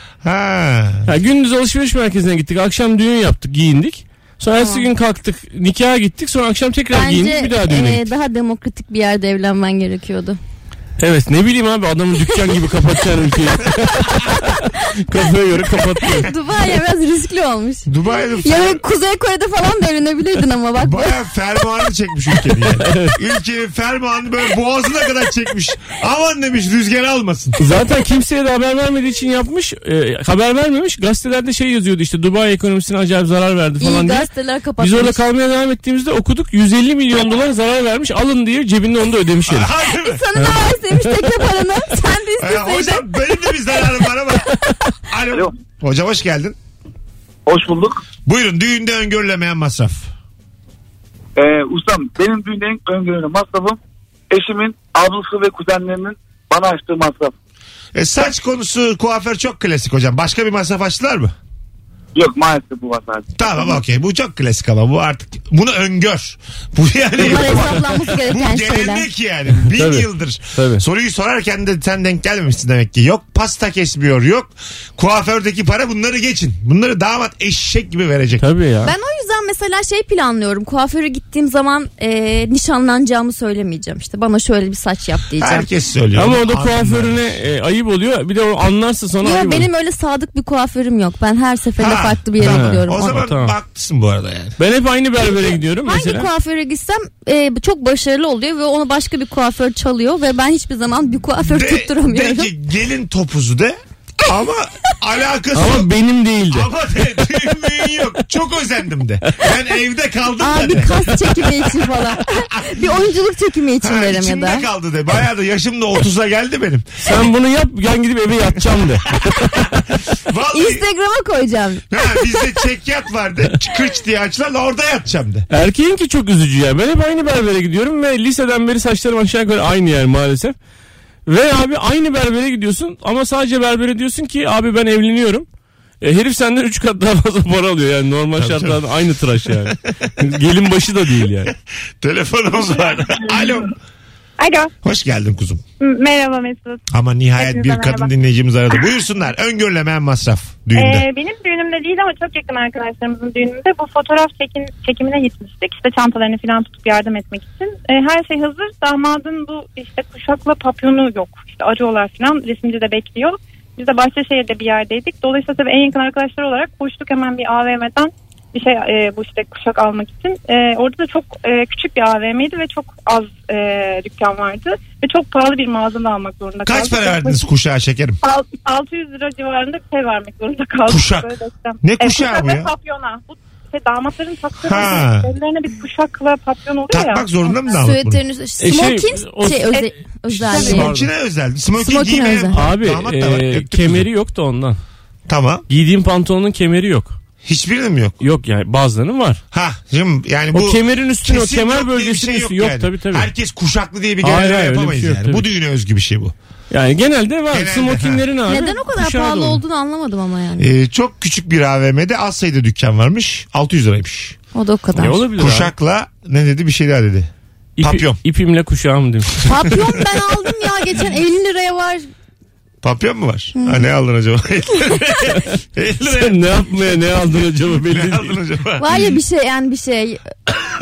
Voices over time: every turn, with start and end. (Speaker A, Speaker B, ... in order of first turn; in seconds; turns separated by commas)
Speaker A: 0.2-1.1, Speaker B: 1.1-8.0, Speaker C: 4.6-4.9, Speaker C: 6.9-10.4, Speaker B: 11.0-16.3, Speaker C: 14.1-14.6, Speaker C: 16.0-21.1, Speaker A: 17.9-18.8, Speaker A: 20.8-27.6, Speaker B: 22.8-23.2, Speaker B: 27.6-39.7, Speaker C: 33.8-35.2, Speaker A: 39.5-40.2, Speaker C: 39.9-43.8, Speaker B: 40.4-41.3, Speaker A: 42.4-44.5, Speaker A: 45.0-46.6, Speaker D: 47.5-48.0, Speaker A: 48.3-50.1, Speaker D: 51.4-53.8, Speaker D: 54.3-57.3, Speaker A: 58.0-61.3, Speaker D: 62.1-63.3, Speaker A: 63.4-78.4, Speaker C: 67.2-69.1, Speaker B: 69.7-70.8, Speaker B: 78.4-78.9, Speaker C: 78.8-85.7, Speaker A: 85.4-87.4, Speaker B: 86.2-89.7, Speaker C: 89.2-93.2, Speaker A: 91.8-94.6, Speaker B: 92.4-93.5, Speaker B: 94.6-96.3, Speaker C: 95.3-102.5, Speaker A: 101.5-105.9, Speaker B: 105.5-106.7, Speaker A: 106.5-111.5, Speaker C: 110.4-114.7, Speaker A: 112.5-112.9, Speaker A: 113.8-117.2, Speaker B: 117.0-119.8, Speaker A: 120.2-120.8, Speaker C: 120.5-122.4, Speaker A: 121.9-125.5, Speaker B: 125.5-130.6, Speaker B: 131.3-135.5, Speaker B: 136.0-141.5, Speaker A: 138.4-138.8, Speaker A: 139.7-140.1, Speaker A: 141.5-143.8, Speaker E: 144.4-144.7, Speaker A: 144.8-145.6, Speaker E: 145.8-146.8, Speaker A: 146.9-151.1, Speaker E: 147.4-148.1, Speaker E: 150.8-177.4, Speaker A: 176.7-178.2, Speaker E: 178.2-187.6, Speaker A: 180.9-182.7, Speaker A: 184.6-185.3, Speaker A: 186.9-188.2, Speaker C: 187.7-190.9, Speaker B: 188.6-189.9, Speaker B: 190.4-191.1, Speaker A: 190.4-194.1, Speaker C: 191.8-192.6, Speaker B: 192.5-194.8, Speaker A: 195.3-195.7, Speaker B: 195.7-197.2, Speaker A: 197.4-198.2, Speaker B: 198.2-199.4, Speaker A: 199.5-206.3, Speaker B: 200.5-203.3, Speaker B: 204.2-205.4, Speaker B: 206.7-209.6, Speaker A: 207.5-208.2, Speaker C: 208.5-210.7, Speaker A: 210.6-214.4, Speaker C: 214.5-215.2, Speaker B: 215.0-215.7, Speaker A: 215.3-217.3, Speaker B: 217.8-219.5, Speaker A: 217.8-218.2, Speaker C: 219.4-222.1, Speaker A: 222.8-227.2, Speaker C: 223.6-223.8, Speaker B: 226.1-228.4, Speaker A: 227.7-229.2, Speaker C: 228.8-230.2